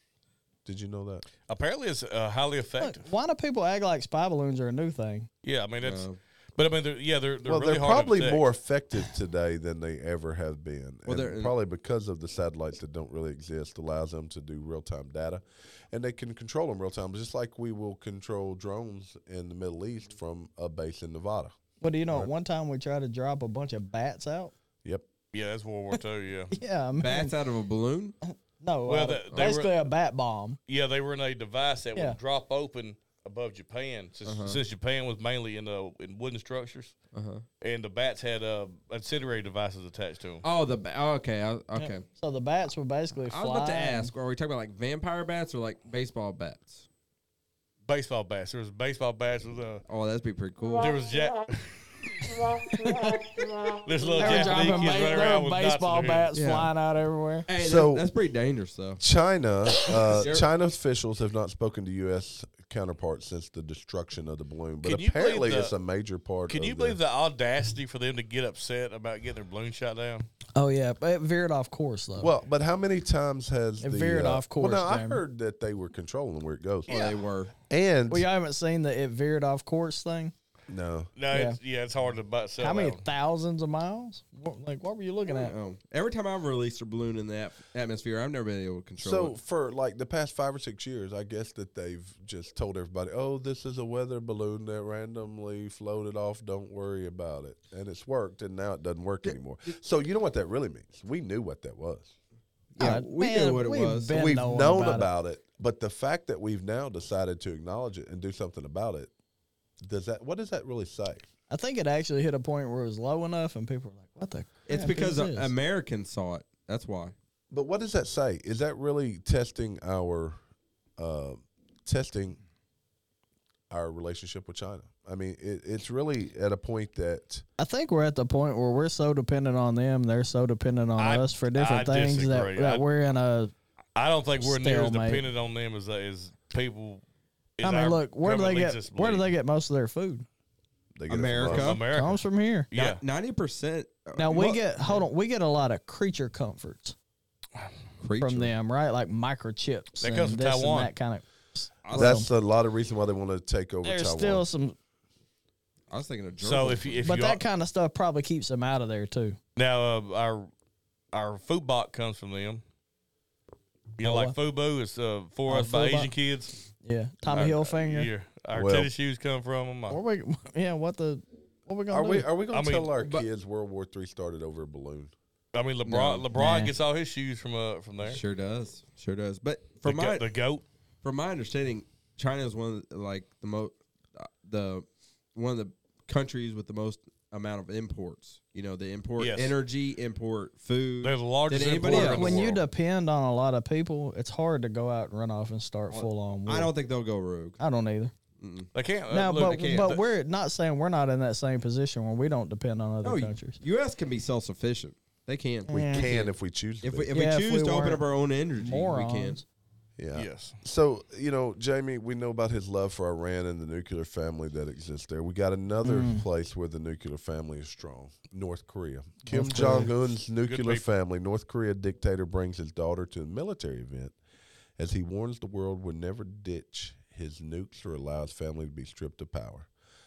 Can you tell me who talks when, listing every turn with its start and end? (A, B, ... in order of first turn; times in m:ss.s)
0:00.6-0:01.3 A
0:01.5-0:03.1 B
0:02.8-0:05.3 C
0:05.4-0:08.4 B
0:05.8-0:06.2 D
0:07.4-0:21.6 A
0:11.1-0:11.5 D
0:21.8-0:24.5 C
0:25.3-0:26.5 B
0:26.5-0:27.4 C
0:27.0-0:28.2 D
0:28.2-0:30.6 C
0:28.9-0:29.7 B
0:30.7-0:37.0 B
0:34.3-0:34.6 D
0:37.1-0:37.4 D
0:37.6-0:40.4 B
0:40.4-0:42.0 D
0:41.8-0:44.1 C
0:43.3-0:46.8 D
0:47.9-0:49.8 B
0:49.9-0:50.9 D
0:50.8-0:52.5 B
0:52.7-0:53.3 C
0:53.8-0:56.3 B
0:54.2-0:57.5 C
0:56.3-0:56.7 D
0:57.5-0:59.0 D
0:57.6-0:58.1 A
0:59.0-1:07.0 A
0:59.9-1:00.4 D
1:04.8-1:05.7 B
1:06.5-1:10.3 B
1:10.6-1:12.3 C
1:12.2-1:16.9 A
1:13.8-1:15.2 C
1:16.9-1:17.5 D
1:16.9-1:17.2 C
1:17.7-1:18.3 A
1:18.1-1:20.3 C
1:20.7-1:21.1 A
1:21.2-1:23.0 B
1:21.3-1:21.6 C
1:22.6-1:25.5 C
1:25.3-1:29.4 D
1:29.0-1:42.1 A
1:42.7-1:44.2 D
1:42.8-1:45.1 C
1:44.1-1:49.1 A
1:49.8-1:51.3 A
1:51.5-1:55.5 C
1:54.7-1:57.1 D
1:57.5-2:00.4 A
2:01.0-2:02.4 A
2:03.7-2:07.4 A
2:07.6-2:13.5 C
2:11.0-2:12.8 B
2:14.0-2:17.0 B
2:14.4-2:15.3 C
2:17.6-2:19.3 B
2:17.6-2:20.3 C
2:21.0-2:21.8 A
2:21.1-2:21.8 D
2:21.4-2:23.0 B
2:21.9-2:22.7 C
2:22.8-2:25.0 D
2:24.2-2:27.0 C
2:28.0-2:28.5 D
2:28.2-2:32.3 C
2:30.0-2:30.9 B
2:31.8-2:32.2 D
2:31.9-2:34.5 A
2:33.8-2:34.8 C
2:35.9-2:37.0 D
2:36.4-2:37.4 B
2:37.0-2:39.4 C
2:39.6-2:40.5 B
2:41.1-2:42.6 B
2:44.0-2:46.6 B
2:44.0-2:44.4 C
2:45.5-2:46.1 C
2:46.8-2:48.1 C
2:47.3-2:50.0 B
2:48.5-2:48.9 A
2:49.9-2:52.3 C
2:51.9-2:55.1 A
2:52.5-2:52.9 B
2:53.0-2:53.2 D
2:55.5-2:58.2 B
2:55.9-2:56.3 D
2:56.4-2:56.7 C
2:58.0-3:00.3 D
2:59.8-3:00.6 B
3:01.0-3:12.6 D
3:09.2-3:09.6 B
3:11.0-3:12.6 B
3:11.9-3:16.7 C
3:15.9-3:17.6 D
3:17.6-3:18.1 C
3:18.4-3:18.7 D
3:18.7-3:20.0 B
3:19.1-3:23.6 C
3:19.4-3:20.0 D
3:23.0-3:29.4 D
3:25.7-3:26.1 C
3:25.8-3:27.1 A
3:27.1-3:29.4 C
3:30.0-3:44.2 A
3:30.1-3:30.6 B
3:35.8-3:36.2 C
3:39.3-3:39.9 C
3:40.4-3:40.8 B
3:44.8-3:49.7 A